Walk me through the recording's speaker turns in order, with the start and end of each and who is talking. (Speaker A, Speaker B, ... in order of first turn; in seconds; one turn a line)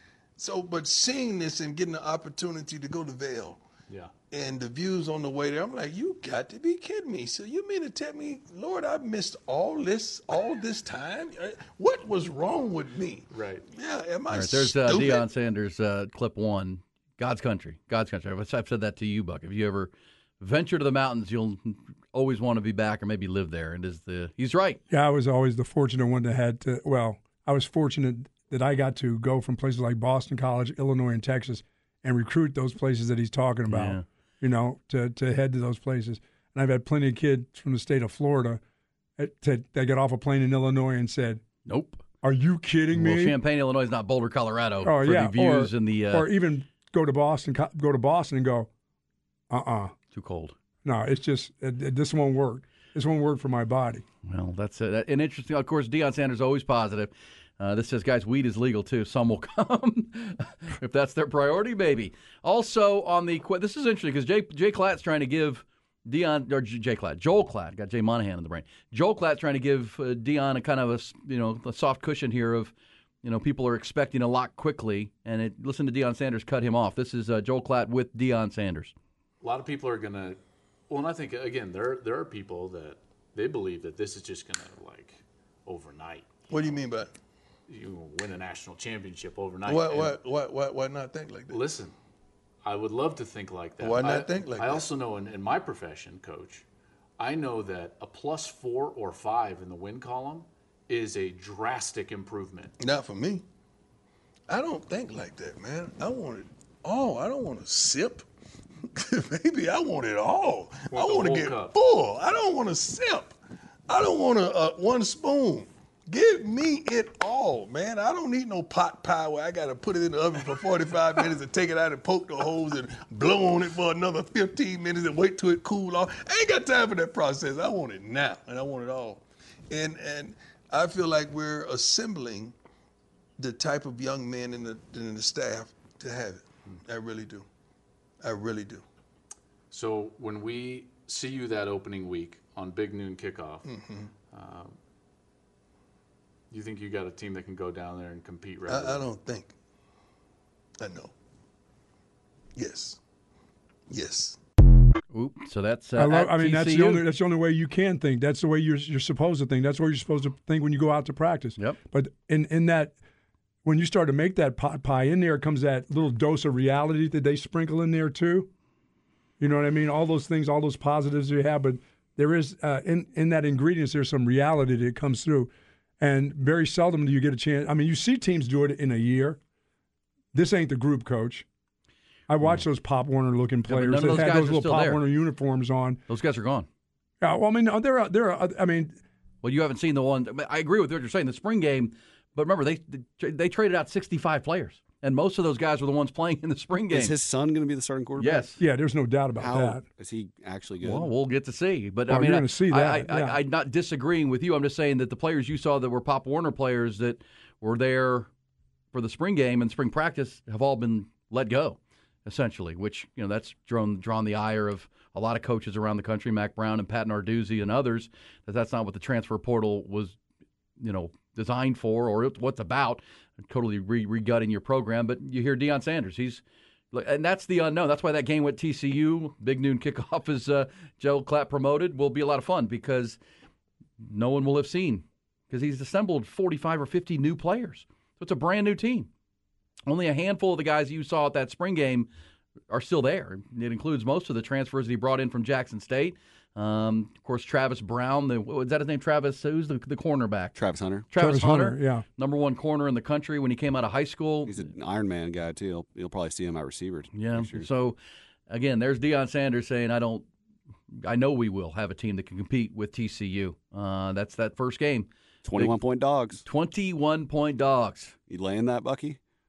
Speaker A: 0.4-3.6
Speaker A: 4.3-15.2
Speaker B: 13.3-13.7
Speaker C: 14.3-24.8
Speaker D: 24.9-38.6
Speaker C: 33.7-34.0
Speaker D: 39.2-41.4
Speaker C: 41.6-42.0
Speaker D: 42.2-43.4
Speaker C: 42.9-46.3
Speaker D: 44.8-48.7
Speaker D: 49.5-49.9
Speaker C: 50.1-50.5
Speaker D: 50.8-54.0
Speaker C: 54.2-78.9
Speaker B: 79.4-80.4
Speaker B: 80.9-86.3
Speaker A: 86.5-87.1
Speaker B: 87.7-90.2
Speaker A: 89.6-91.6
Speaker B: 91.5-91.9
Speaker B: 92.6-96.6
Speaker A: 93.8-94.9
Speaker B: 97.2-102.7
Speaker A: 102.8-103.4
Speaker A: 104.5-108.2
Speaker A: 108.9-113.3
Speaker B: 110.9-111.7
Speaker A: 113.9-132.5
Speaker A: 133.4-137.4
Speaker A: 138.2-138.8
Speaker B: 139.7-143.7
Speaker A: 143.7-144.1
Speaker B: 144.3-144.8
Speaker B: 146.5-149.0
Speaker A: 148.7-149.5
Speaker A: 150.8-151.1
Speaker A: 152.6-153.0
Speaker A: 153.9-154.4
Speaker C: 155.1-157.0
Speaker D: 156.0-162.9
Speaker D: 163.6-168.5
Speaker D: 169.4-179.4
Speaker D: 180.3-181.4
Speaker D: 182.3-186.0
Speaker C: 183.7-185.0
Speaker C: 186.1-186.7
Speaker D: 187.2-189.0
Speaker C: 189.4-197.1
Speaker E: 196.9-198.4
Speaker C: 198.2-198.6
Speaker D: 198.6-199.8
Speaker E: 199.4-201.1
Speaker C: 200.8-208.3
Speaker D: 202.1-203.4
Speaker C: 208.9-220.2
Speaker C: 220.8-233.2
Speaker C: 234.0-239.1
Speaker C: 239.9-242.1
Speaker C: 242.7-250.6
Speaker E: 250.6-251.1
Speaker C: 251.1-254.6
Speaker D: 251.2-252.0
Speaker E: 254.4-257.7
Speaker C: 257.1-258.0
Speaker C: 258.5-260.2
Speaker C: 260.9-265.8
Speaker E: 265.4-266.4
Speaker C: 266.4-268.1
Speaker E: 268.3-269.2